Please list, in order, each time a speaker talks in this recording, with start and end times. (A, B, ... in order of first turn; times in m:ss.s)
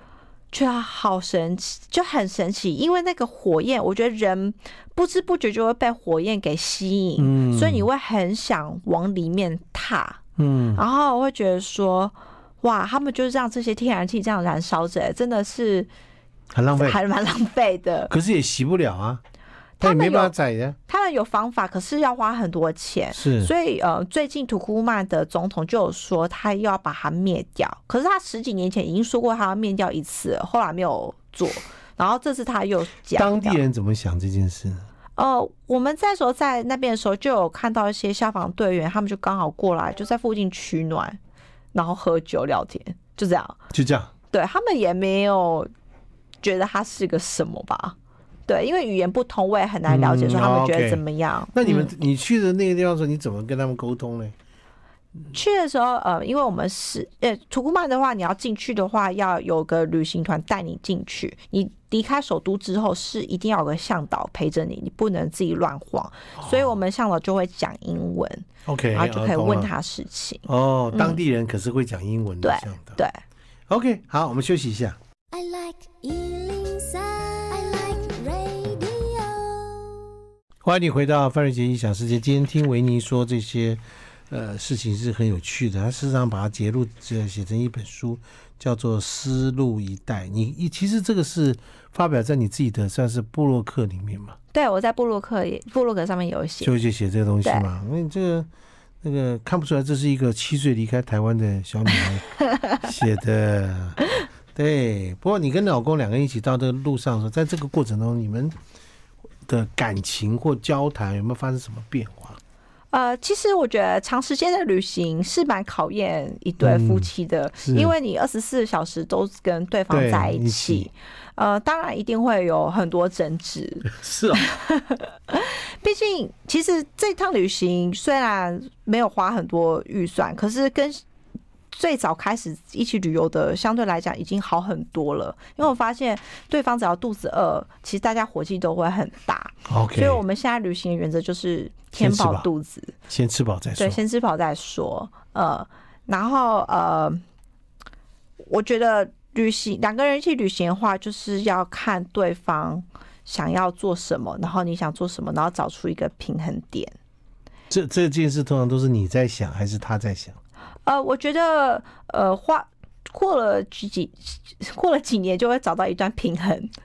0:00.5-0:10.2 A
0:07.2-0:07.9 B
0:10.4-0:10.8 B
0:10.8-0:15.9 A
0:16.5-0:17.0 B
0:16.7-0:18.1 A
0:18.1-0:19.2 B
0:19.8-0:20.3 A
0:19.8-0:20.8 B
0:20.9-0:33.6 A
0:23.1-0:23.5 B
0:33.1-0:34.8 B
0:35.2-0:41.2 A
0:41.7-0:43.6 A
0:43.7-0:44.1 B
0:44.3-0:45.7 A
0:46.4-0:48.0 A
0:48.5-0:51.9 A
0:49.9-0:54.3 B
0:55.3-1:11.2 A
1:06.4-1:06.6 B
1:08.6-1:09.7 B
1:10.5-1:13.0 B
1:12.4-1:13.2 A
1:13.7-1:15.0 B
1:15.3-1:20.0 C
1:20.6-1:34.4 B
1:34.5-1:36.8 A
1:36.6-1:38.5 B
1:39.0-1:44.0 B
1:44.5-1:48.5 B
1:49.5-1:52.4 B
1:52.9-2:11.0 A
1:56.6-1:57.1 B
1:57.6-1:57.9 B
1:59.9-2:00.9 B
2:03.8-2:04.4 B
2:11.7-2:23.0 A
2:19.7-2:20.2 B
2:22.0-2:22.5 B
2:23.1-2:24.0 B
2:23.8-2:27.2 A
2:28.4-2:36.9 A
2:37.7-2:40.4 B
2:40.8-2:46.7 A